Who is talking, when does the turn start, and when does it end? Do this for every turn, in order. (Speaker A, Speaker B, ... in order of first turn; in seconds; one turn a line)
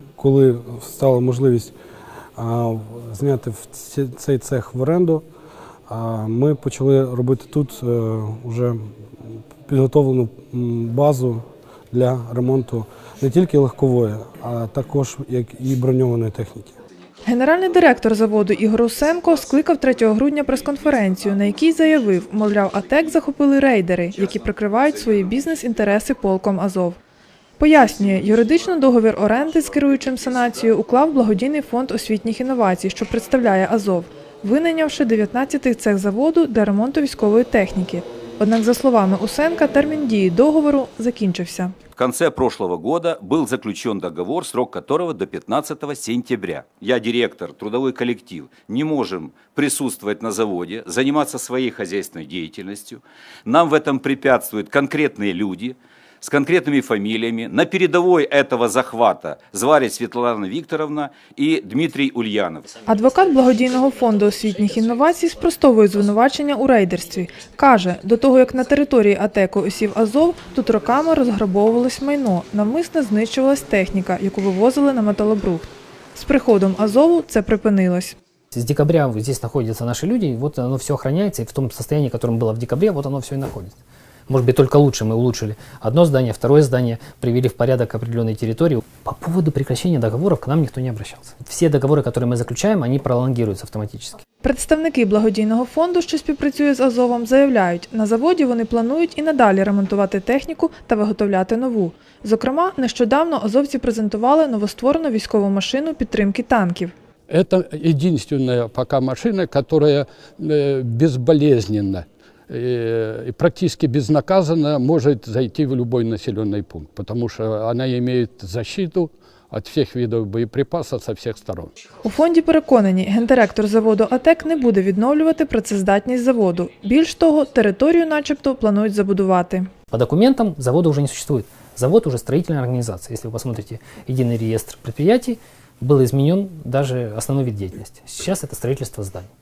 Speaker A: 0.2-1.7
Speaker A: 2.4-5.2
Speaker A: 5.9-8.8
Speaker A: 9.7-16.8
Speaker B: 17.2-27.0
Speaker B: 27.6-41.8
Speaker C: 42.0-62.8
Speaker B: 62.9-78.2
Speaker D: 78.5-94.2
Speaker B: 94.4-106.9
Speaker E: 107.3-121.7
Speaker B: 122.0-129.7
Speaker D: 129.9-139.3